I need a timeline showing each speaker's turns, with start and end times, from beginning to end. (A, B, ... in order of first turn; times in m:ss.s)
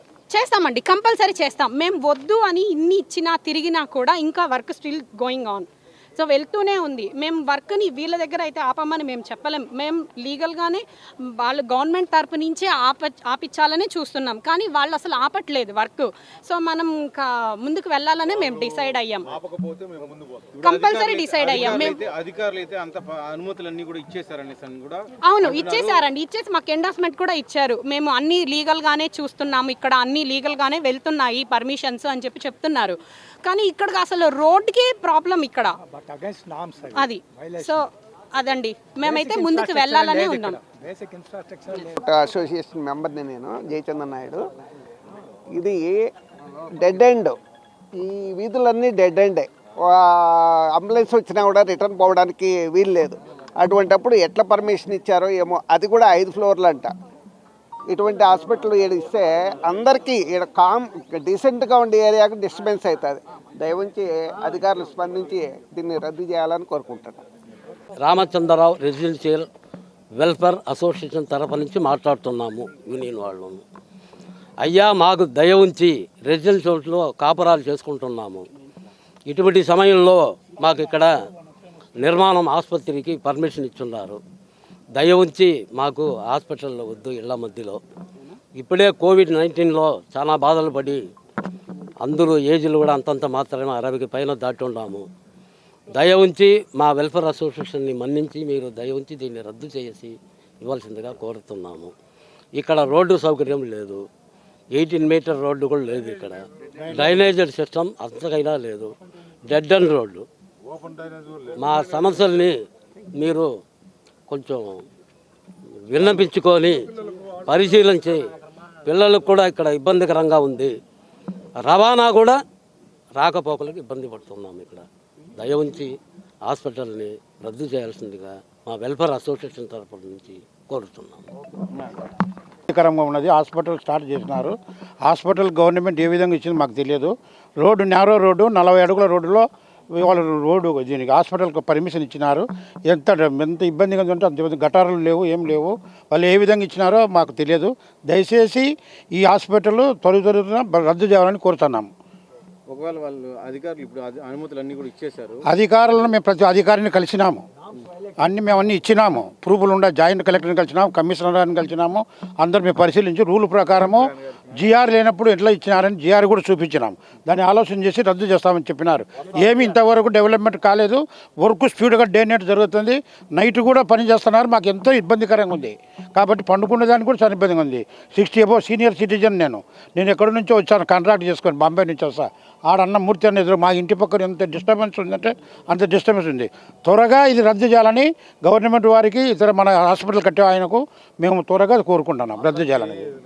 0:00.3-0:19.3 A
0:18.4-0:26.0 B
0:20.6-0:22.0 A
0:25.2-0:35.8 A
0:35.8-0:37.8 C
0:36.9-0:40.6 A
0:39.0-0:42.1 C
0:41.9-0:44.4 D
0:45.5-0:46.1 D
0:46.7-0:47.4 D
0:47.9-0:56.9 D
0:57.9-1:07.2 D
1:08.0-1:09.4 E
1:10.2-1:13.6 E
1:14.6-1:18.5 E
1:19.3-1:21.1 E
1:22.0-1:24.2 E
1:24.9-1:27.8 E
1:28.5-1:31.0 E
1:32.0-1:35.0 E
1:35.9-1:41.9 E
1:42.5-1:44.0 E
1:44.7-1:48.9 E
1:49.4-1:50.2 E
1:51.5-1:52.5 E
1:53.2-1:53.5 E
1:54.3-1:54.8 E
1:55.9-1:58.2 E
1:58.8-2:00.7 E
2:01.6-2:02.4 E
2:03.2-2:04.8 E
2:05.4-2:11.3 E
2:12.7-2:31.9 F
2:32.7-2:35.4 B
2:35.5-2:37.4 F
2:38.2-3:13.1 F